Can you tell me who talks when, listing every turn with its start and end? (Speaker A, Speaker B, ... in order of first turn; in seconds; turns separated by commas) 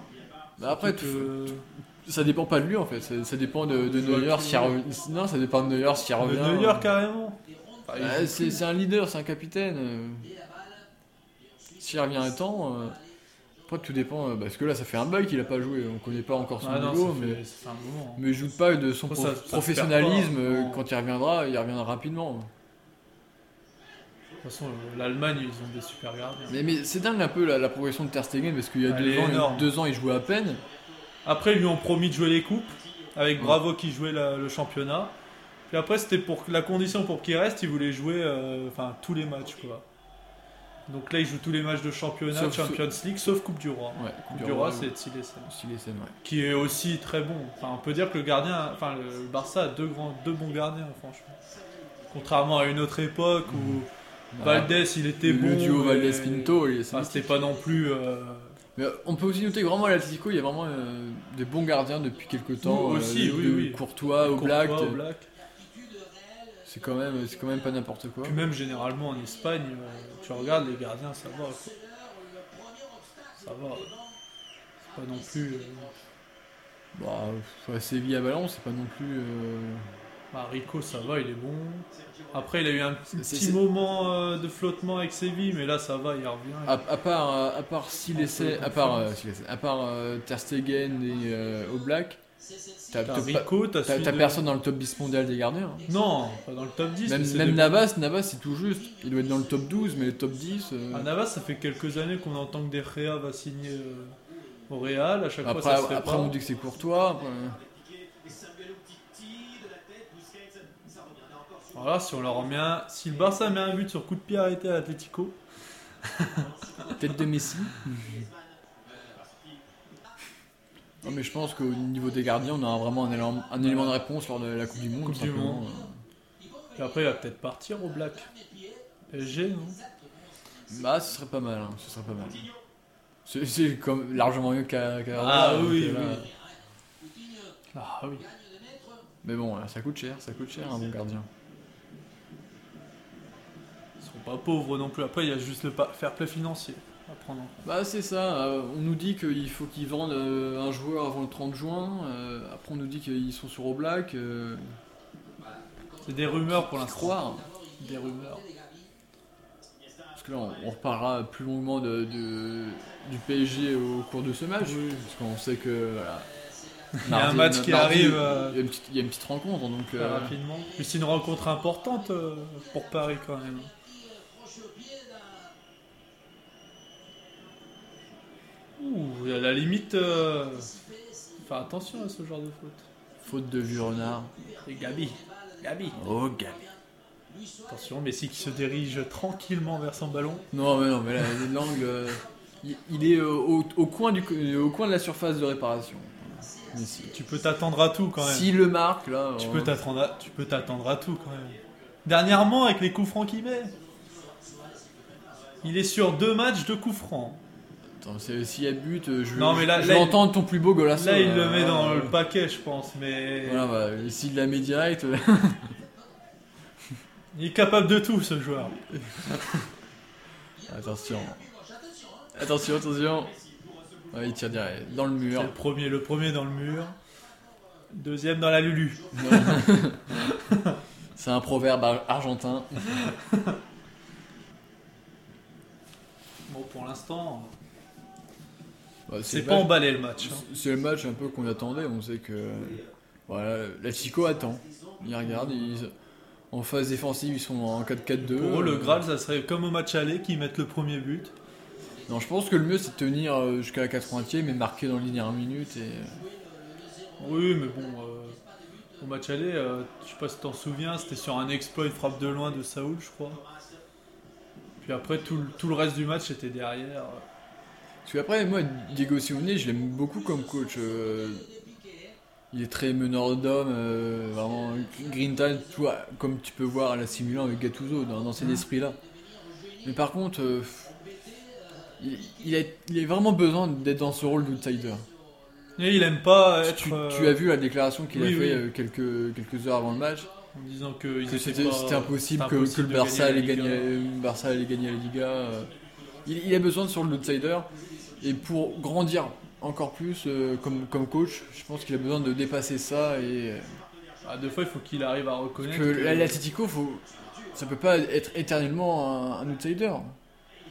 Speaker A: 0.6-6.9, Speaker B: 0.6-1.6, Speaker B: 3.7-4.8, Speaker B: 6.2-8.6, Speaker A: 8.0-10.3, Speaker A: 11.8-13.0, Speaker A: 13.7-17.4, Speaker B: 16.6-18.2, Speaker A: 18.1-22.5, Speaker B: 19.1-20.8, Speaker B: 24.4-26.6, Speaker A: 26.5-30.6, Speaker B: 28.9-29.7, Speaker B: 31.2-35.1, Speaker B: 35.7-39.8, Speaker B: 40.9-45.5, Speaker A: 42.3-42.8, Speaker A: 43.9-44.9, Speaker A: 45.5-46.1, Speaker B: 46.2-51.3, Speaker B: 52.1-53.9, Speaker A: 54.3-57.5, Speaker B: 54.4-58.5, Speaker A: 58.8-65.0, Speaker B: 62.6-65.3, Speaker A: 66.6-68.4, Speaker B: 68.2-71.7, Speaker B: 73.4-73.9, Speaker B: 74.9-75.9, Speaker A: 76.9-79.8, Speaker B: 80.3-86.8, Speaker A: 83.1-83.6, Speaker A: 86.6-92.2, Speaker B: 88.1-89.1, Speaker A: 92.9-95.9, Speaker B: 93.0-94.4, Speaker B: 95.9-97.8, Speaker A: 97.0-101.1, Speaker B: 100.9-104.2, Speaker B: 104.7-106.4, Speaker A: 105.4-107.6, Speaker B: 111.7-115.4, Speaker B: 116.1-116.5, Speaker A: 116.8-118.1, Speaker A: 121.0-126.0, Speaker B: 123.6-124.0, Speaker B: 125.0-125.7, Speaker B: 126.8-128.3, Speaker B: 129.1-129.8, Speaker A: 130.7-132.5, Speaker A: 133.2-136.3, Speaker B: 135.2-136.3, Speaker B: 137.7-138.3, Speaker A: 139.2-141.3, Speaker B: 144.0-147.6, Speaker A: 147.6-154.7, Speaker B: 156.0-157.2, Speaker A: 156.3-157.5, Speaker B: 157.8-158.4, Speaker A: 160.1-166.3, Speaker B: 164.6-165.0, Speaker B: 167.0-168.6, Speaker A: 167.0-170.3, Speaker B: 170.0-173.7, Speaker B: 178.8-180.7, Speaker B: 181.4-182.8, Speaker A: 183.2-184.3, Speaker B: 184.6-186.0, Speaker A: 185.9-186.7, Speaker B: 187.7-190.4, Speaker A: 190.5-197.2, Speaker B: 197.1-198.6, Speaker A: 198.2-199.8, Speaker B: 199.4-203.7, Speaker B: 205.6-207.4, Speaker A: 207.9-212.2, Speaker B: 209.3-210.3, Speaker B: 210.9-213.7, Speaker A: 213.4-215.8, Speaker B: 217.3-218.8, Speaker A: 220.7-221.4, Speaker A: 222.3-223.3, Speaker A: 224.1-225.5, Speaker B: 225.3-226.9, Speaker B: 227.9-230.7, Speaker A: 229.1-230.0, Speaker A: 231.1-232.9, Speaker B: 233.0-233.5, Speaker B: 236.5-237.5, Speaker A: 239.1-245.9, Speaker B: 239.3-240.4, Speaker B: 245.2-245.8, Speaker A: 246.5-249.0, Speaker B: 248.2-251.3, Speaker A: 252.1-256.2, Speaker B: 257.2-258.4, Speaker B: 259.0-263.4, Speaker B: 264.8-267.2, Speaker A: 268.0-271.5, Speaker A: 272.5-279.0, Speaker A: 279.8-280.9, Speaker A: 282.0-285.1, Speaker B: 285.8-287.4, Speaker A: 286.6-290.3, Speaker B: 288.1-288.6, Speaker B: 290.5-293.9, Speaker A: 291.2-303.8, Speaker B: 304.2-306.4, Speaker A: 305.6-310.1